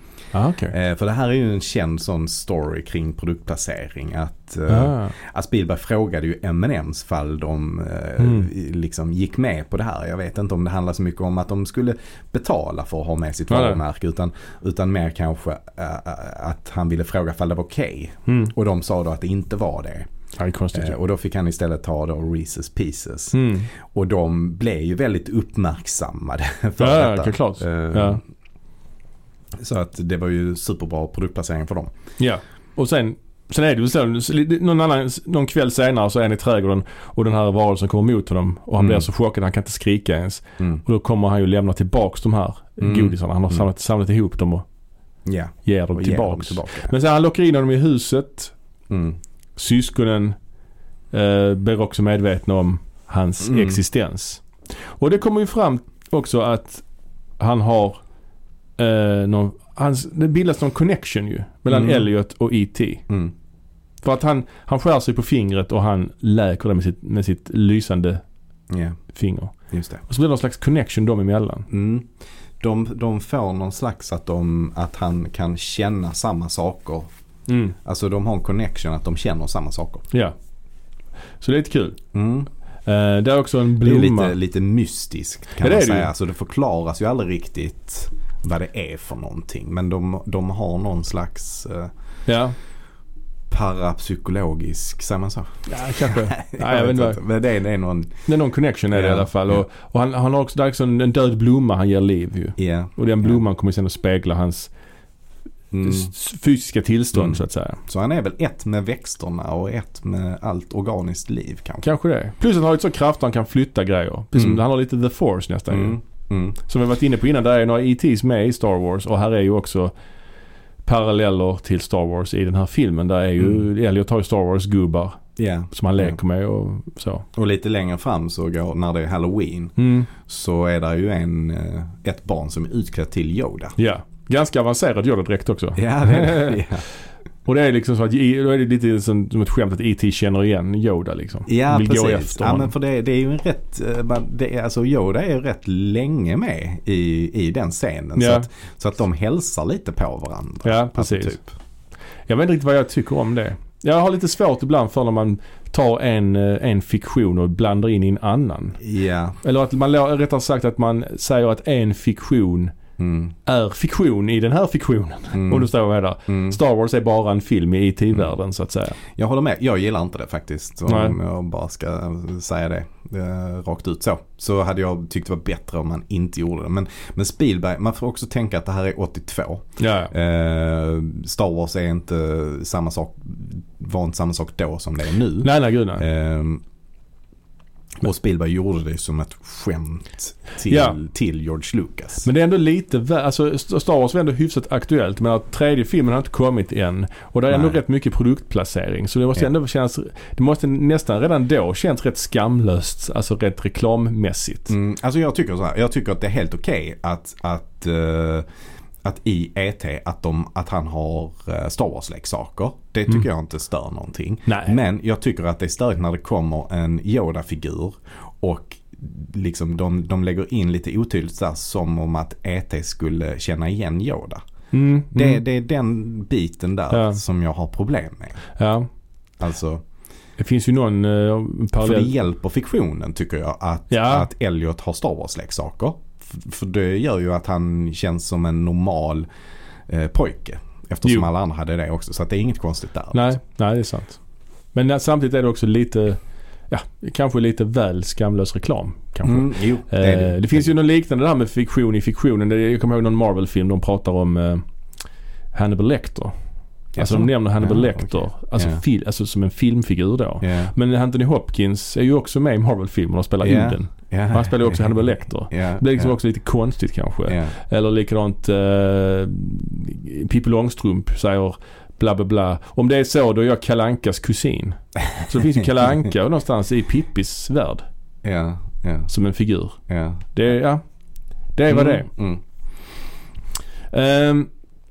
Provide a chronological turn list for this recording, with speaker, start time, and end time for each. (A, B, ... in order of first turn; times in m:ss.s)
0:00.3-0:00.7 A
0:00.7-0:20.1 B
0:04.7-0:05.1 A
0:08.2-0:08.5 A
0:13.5-0:13.8 A
0:18.3-0:18.5 A
0:20.4-0:21.0 A
0:20.7-0:28.2 B
0:23.3-0:23.7 A
0:26.8-0:28.2 A
0:29.5-0:31.9 B
0:32.2-0:44.6 A
0:38.8-0:39.0 B
0:42.8-0:43.7 B
0:45.2-0:46.9 B
0:45.6-0:48.5 A
0:48.9-0:49.2 B
0:49.6-0:50.4 A
0:51.1-0:54.4 A
0:53.4-0:53.8 B
0:55.0-0:56.8 A
0:57.4-0:58.0 A
0:58.8-1:03.0 A
1:01.7-1:02.0 B
1:03.1-1:03.3 B
1:04.0-1:08.2 A
1:08.7-1:09.0 B
1:09.1-1:09.5 A
1:09.7-1:10.0 B
1:10.1-1:11.7 A
1:11.7-1:12.1 B
1:12.6-1:17.1 B
1:17.5-1:17.7 A
1:17.8-1:20.1 B
1:21.4-1:22.0 A
1:22.1-1:22.5 B
1:22.8-1:24.3 A
1:23.8-1:31.9 B
1:25.6-1:26.1 A
1:32.3-1:32.5 A
1:33.5-1:38.2 B
1:35.7-1:37.2 A
1:38.3-1:44.7 A
1:38.9-1:39.6 B
1:42.6-1:43.4 B
1:45.7-1:46.1 B
1:45.8-1:47.8 A
1:47.1-1:51.8 B
1:51.8-1:56.0 A
1:54.3-1:54.6 B
1:55.7-1:56.6 B
1:56.6-1:59.9 A
2:00.8-2:07.2 A
2:05.4-2:06.2 B
2:07.4-2:13.8 B
2:09.8-2:10.1 A
2:13.8-2:16.6 A
2:15.8-2:16.8 B
2:17.4-2:22.7 A
2:21.5-2:31.5 B
2:28.2-2:28.5 A
2:30.6-2:31.4 A
2:32.3-2:38.8 A
2:38.8-2:39.4 B
2:39.4-2:42.7 A
2:43.0-2:43.3 B
2:43.4-2:49.0 A
2:45.3-2:45.7 B
2:46.3-2:46.6 B
2:49.1-3:06.6 B
2:50.9-2:51.2 A
2:59.8-3:00.1 A
3:05.4-3:06.0 A
3:08.0-3:12.3 B
3:10.7-3:11.0 A
3:12.2-3:24.7 A
3:17.5-3:17.8 B
3:24.7-3:28.5 B
3:29.0-3:44.4 B
3:34.5-3:34.8 A
3:44.7-3:45.4 A
3:45.1-3:48.4 B
3:46.9-3:47.2 A
3:48.6-3:48.9 A
3:49.4-3:49.8 B
3:50.4-3:52.1 A
3:51.8-3:59.3 B
3:53.9-3:54.3 A
3:59.9-4:03.4 B
4:03.1-4:04.2 A
4:04.7-4:14.6 A
4:09.2-4:10.7 B
4:15.5-4:16.3 A
4:16.9-4:18.8 B
4:17.0-4:37.8 A
4:20.4-4:20.7 B
4:23.4-4:26.1 B
4:27.3-4:27.5 B
4:38.2-4:39.1 B
4:39.1-4:39.8 A
4:39.9-4:40.2 B
4:40.3-4:40.8 A
4:41.5-4:42.1 A
4:41.7-4:42.4 B
4:43.9-4:44.5 A